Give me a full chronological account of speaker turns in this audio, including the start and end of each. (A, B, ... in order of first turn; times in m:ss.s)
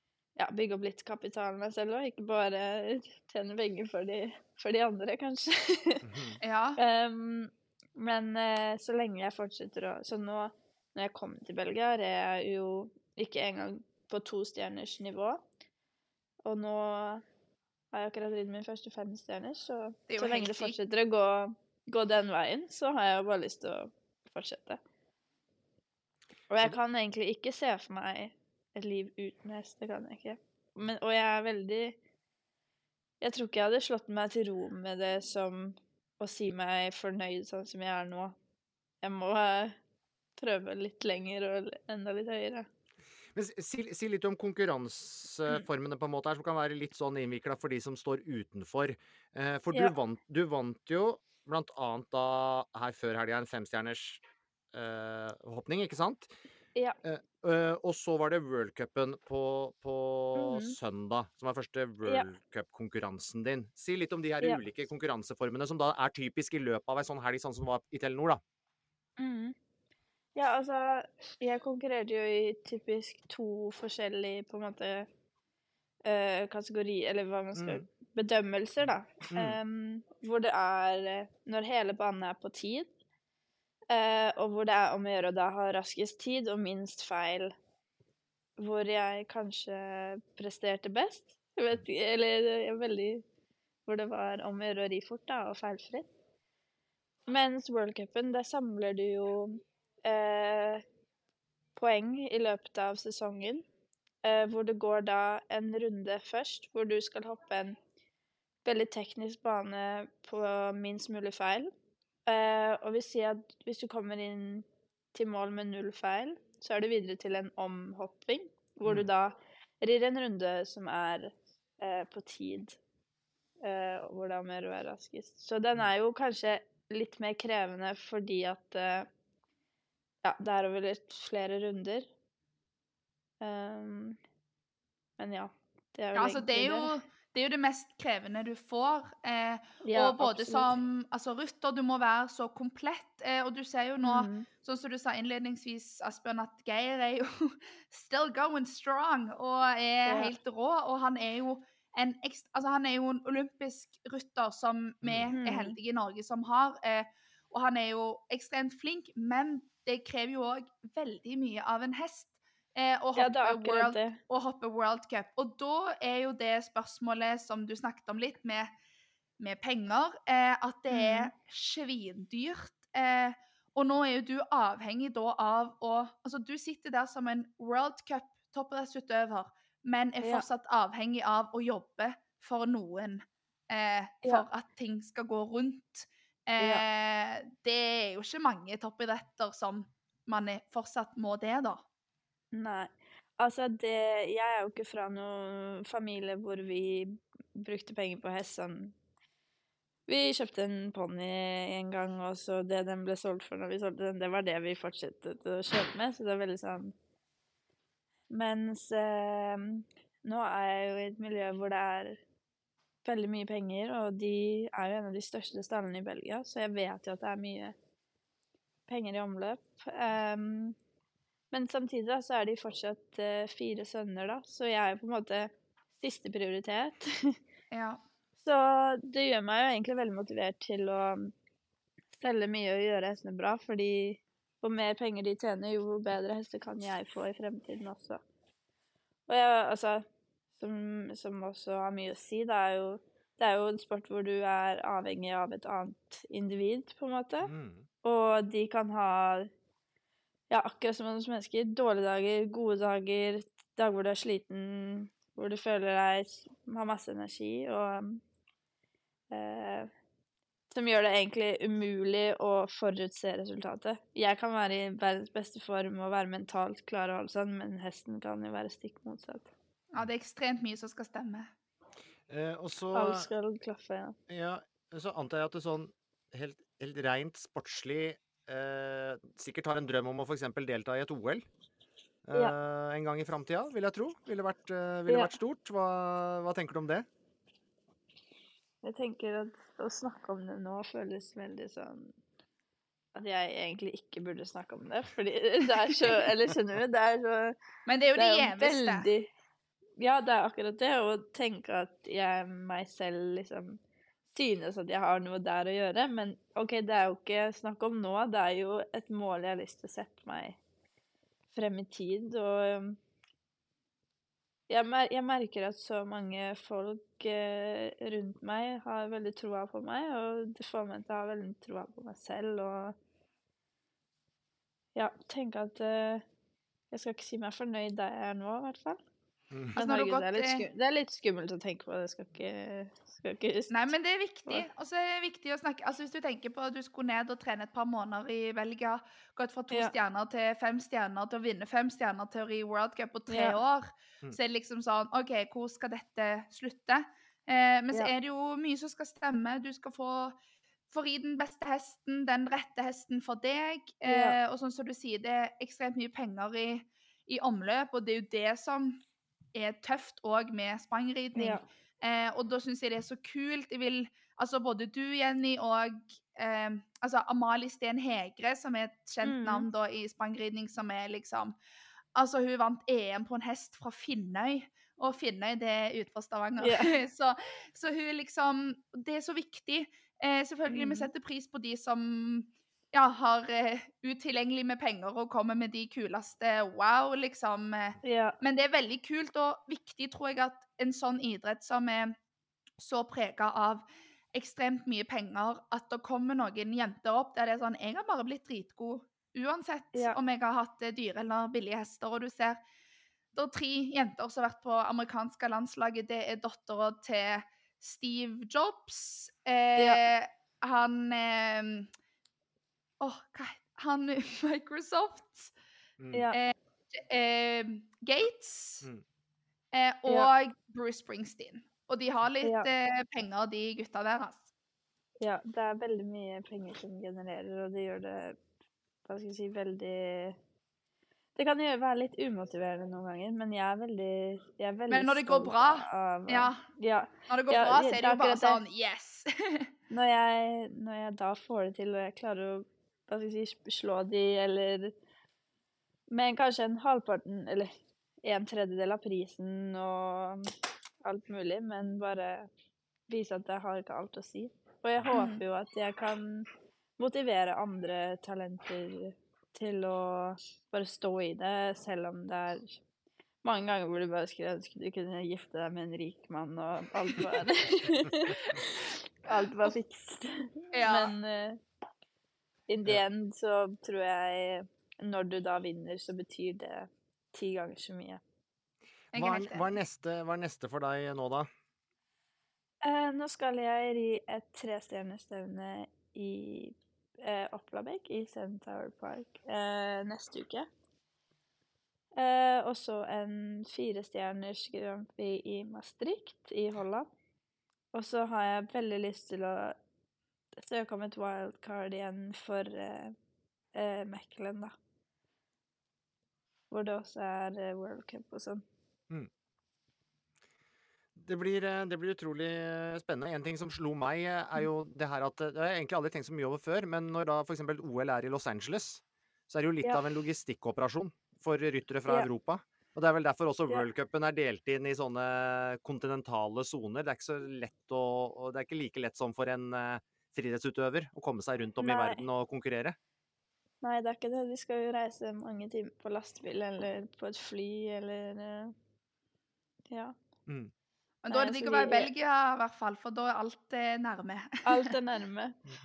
0:00.4-0:06.0 A
0:06.0-0:06.4 B
0:06.4-0:06.8 C
0:06.8-0:15.4 A
0:16.4-0:17.2 A
0:17.9-0:24.8 A
0:20.1-0:20.8 C
0:26.5-0:32.0 A
0:33.2-0:38.4 A
0:39.0-0:39.8 A
0:40.4-0:42.7 A
0:43.4-0:54.2 B
0:54.7-0:56.3 B
0:57.0-1:08.4 B
1:00.4-1:00.8 A
1:09.2-1:09.6 A
1:10.4-1:15.1 A
1:16.0-1:22.9 A
1:17.6-1:17.8 B
1:19.3-1:19.6 B
1:23.9-1:27.5 A
1:28.6-1:33.2 A
1:33.9-1:36.1 A
1:37.3-1:40.8 A
1:41.8-1:43.6 A
1:44.2-1:47.8 A
1:48.6-1:51.7 A
1:52.3-2:02.8 A
2:03.6-2:09.1 A
2:10.2-2:12.1 A
2:13.4-2:14.2 A
2:15.2-2:16.9 A
2:16.2-2:48.7 C
2:19.8-2:20.7 A
2:24.0-2:24.5 A
2:30.1-2:30.3 A
2:35.0-2:35.3 B
2:35.3-2:35.8 A
2:43.2-2:44.2 A
2:49.4-3:11.8 C
2:50.9-2:51.3 A
3:06.6-3:06.8 A
3:12.5-3:18.9 A
3:20.1-3:26.9 A
3:28.3-3:32.2 A
3:33.0-3:37.8 A
3:38.9-3:40.8 A
3:41.5-3:47.4 A
3:47.7-3:48.0 C
3:48.4-3:51.3 A
3:52.2-3:58.2 A
3:59.3-4:00.1 A
4:00.6-4:07.5 A
4:07.4-4:07.9 B
4:08.0-4:09.5 A
4:10.5-4:18.2 A
4:19.3-4:19.9 A
4:20.7-4:29.5 A
4:29.9-4:31.5 C
4:32.3-4:33.3 B
4:32.9-4:34.2 A
4:34.3-4:41.4 B
4:42.3-4:47.1 B
4:48.8-4:52.1 A
4:53.2-4:57.6 A
4:57.9-4:59.1 C
4:58.2-4:59.3 A
5:00.0-5:03.8 A
5:04.3-5:10.6 A
5:11.5-5:13.0 A
5:14.7-5:23.0 A
5:25.0-5:26.2 A
5:26.9-5:29.0 A
5:29.8-5:30.6 C
5:29.8-5:33.9 A
5:33.7-5:50.4 C
5:43.3-5:43.6 A
5:50.9-5:59.0 C
5:54.1-5:54.4 A
5:59.5-6:11.6 C
6:01.4-6:01.6 A
6:09.2-6:09.7 A
6:12.2-6:32.2 C
6:16.6-6:16.9 A
6:20.7-6:21.1 A
6:28.0-6:28.4 A
6:32.8-6:42.6 C
6:43.3-6:51.9 C
6:49.8-6:50.0 A
6:53.0-6:55.5 C
6:56.0-6:56.2 B
6:56.3-6:58.9 C
6:59.7-7:04.5 C
7:02.4-7:02.7 A
7:05.2-7:08.4 A
7:09.1-7:10.4 A
7:11.4-7:18.6 A
7:14.9-7:16.6 C
7:17.3-7:19.7 C
7:19.9-7:24.9 A
7:26.1-7:27.7 A
7:28.2-7:30.5 A
7:31.0-7:32.5 A
7:33.1-7:42.8 A
7:35.1-7:35.4 C
7:43.4-7:51.6 A
7:50.7-7:51.2 C
7:52.7-7:58.2 A
7:59.1-7:59.8 C
7:59.1-8:01.5 B
8:02.8-8:10.7 A
8:12.2-8:17.1 A
8:17.9-8:19.8 A
8:20.6-8:23.2 A
8:23.7-8:24.7 A
8:26.7-8:28.6 A
8:31.2-8:53.0 B
8:51.8-8:52.2 A
8:53.8-8:58.7 A
8:59.9-9:00.2 A
9:00.5-9:00.7 B
9:01.2-9:04.9 C
9:01.3-9:02.1 A
9:04.6-9:05.6 A